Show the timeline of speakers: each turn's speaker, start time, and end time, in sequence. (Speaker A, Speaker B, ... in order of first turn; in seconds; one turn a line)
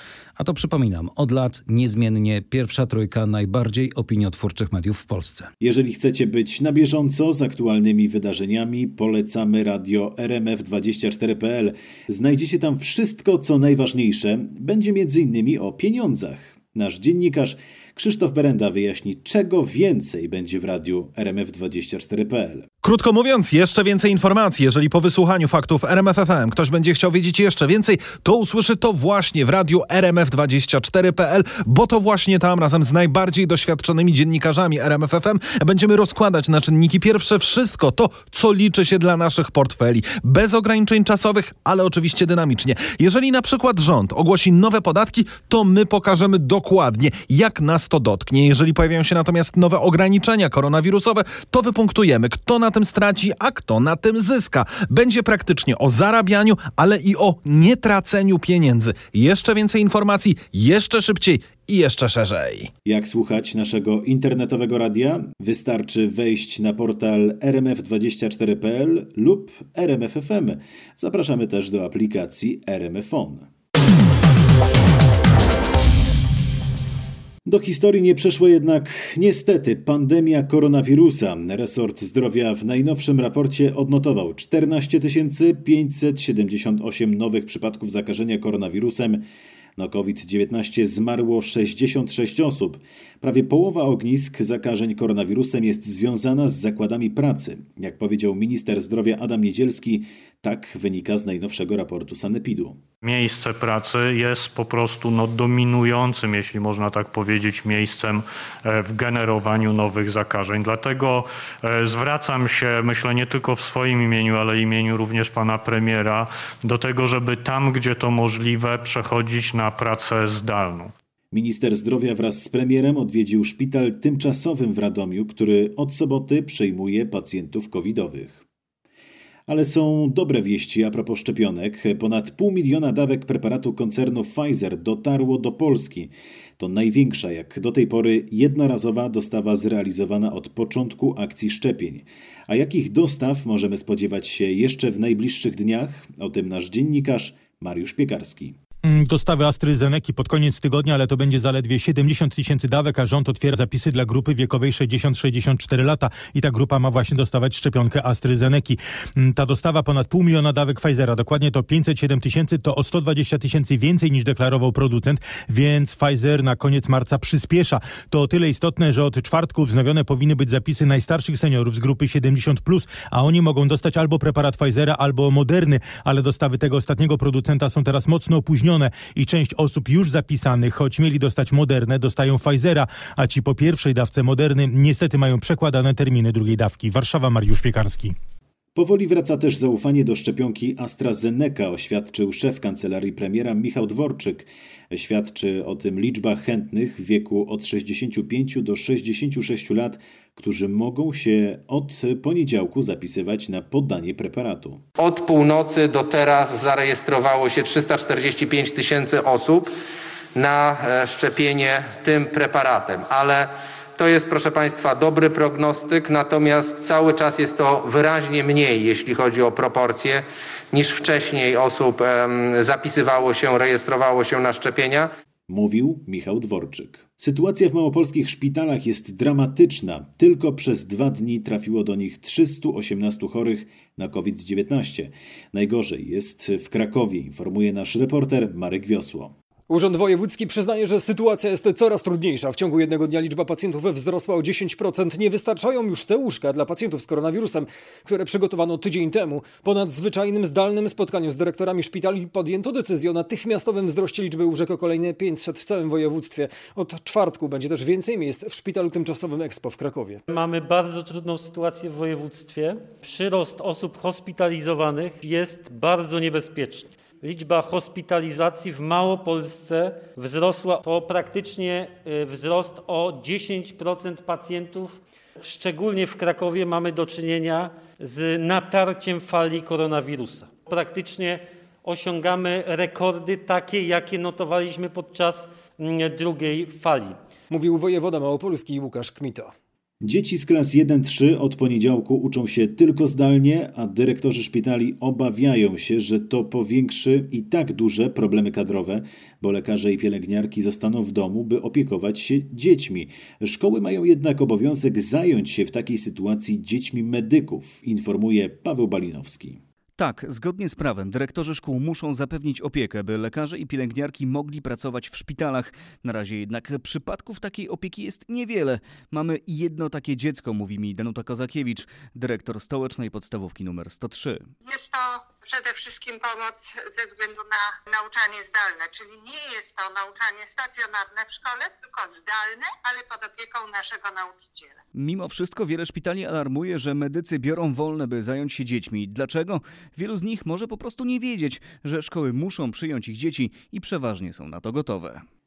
Speaker A: 0.4-5.5
Speaker B: 5.6-22.7
Speaker C: 22.8-62.7
Speaker B: 62.8-73.5
Speaker B: 77.5-89.2
Speaker B: 89.8-102.8
Speaker D: 103.0-120.9
Speaker B: 121.3-128.4
Speaker B: 129.5-148.6
Speaker E: 148.8-188.1
Speaker B: 188.7-204.8
Speaker F: 205.0-209.7
Speaker F: 210.3-225.1
Speaker B: 225.5-239.3
Speaker G: 239.7-260.2
Speaker H: 260.3-287.2
Speaker G: 287.5-289.5
Speaker B: 290.0-309.6
Speaker I: 310.0-324.5
Speaker J: 324.6-334.8
Speaker I: 334.9-345.2